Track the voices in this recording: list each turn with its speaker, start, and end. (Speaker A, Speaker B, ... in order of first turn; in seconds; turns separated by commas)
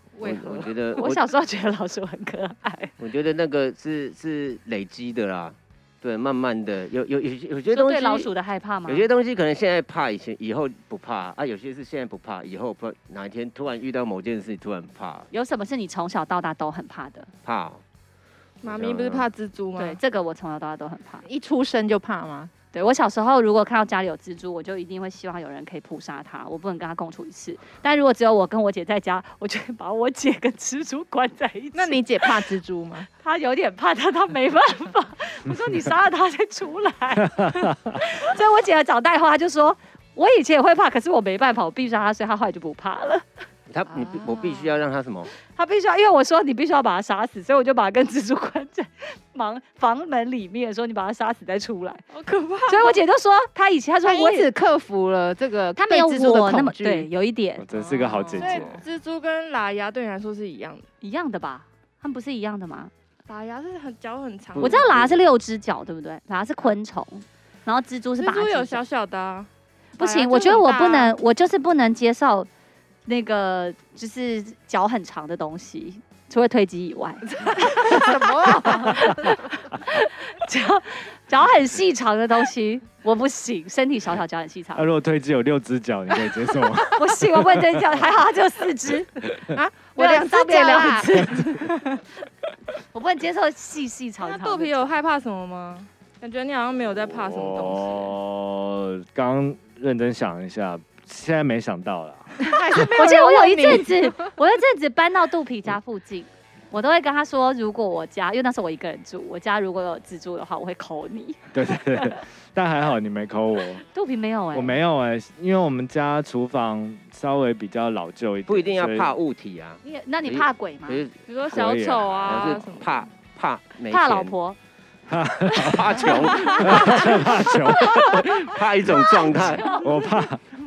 Speaker A: 0.2-1.3, Speaker B: 0.2-0.7, Speaker C: 1.0-2.9, Speaker A: 3.0-8.3, Speaker C: 7.7-9.1, Speaker A: 8.9-15.3, Speaker C: 15.3-17.3, Speaker A: 17.4-17.8, Speaker B: 18.6-20.0, Speaker A: 18.6-19.3, Speaker C: 19.8-21.2, Speaker D: 21.2-22.5, Speaker C: 22.7-32.4, Speaker D: 31.7-33.1, Speaker C: 33.2-43.2, Speaker E: 37.4-38.0, Speaker A: 43.7-45.3, Speaker D: 44.1-44.6, Speaker C: 45.5-52.0, Speaker B: 52.1-53.0, Speaker C: 52.7-54.5, Speaker D: 54.1-57.1, Speaker C: 55.8-58.7, Speaker E: 57.6-58.8, Speaker B: 58.2-60.9, Speaker C: 61.0-62.9, Speaker B: 63.3-64.9, Speaker A: 64.5-65.2, Speaker C: 64.6-68.8, Speaker B: 68.2-69.5, Speaker C: 70.0-72.5, Speaker B: 70.0-71.1, Speaker C: 73.1-78.2, Speaker D: 77.4-79.6, Speaker C: 78.7-84.9, Speaker E: 84.8-88.0, Speaker C: 86.8-89.2, Speaker D: 89.5-91.3, Speaker C: 90.0-91.6, Speaker C: 92.8-94.9, Speaker B: 94.2-98.2, Speaker E: 97.0-102.8, Speaker D: 102.4-104.2, Speaker C: 102.9-112.2, Speaker E: 111.5-113.8, Speaker C: 113.9-114.8, Speaker E: 114.5-119.1, Speaker A: 118.5-121.1, Speaker C: 119.8-121.0, Speaker B: 121.2-123.0, Speaker E: 121.5-122.5, Speaker A: 122.2-124.4, Speaker C: 123.9-124.6, Speaker E: 125.1-125.9, Speaker A: 125.6-127.2, Speaker E: 126.5-130.4, Speaker A: 127.7-129.8, Speaker C: 129.4-129.9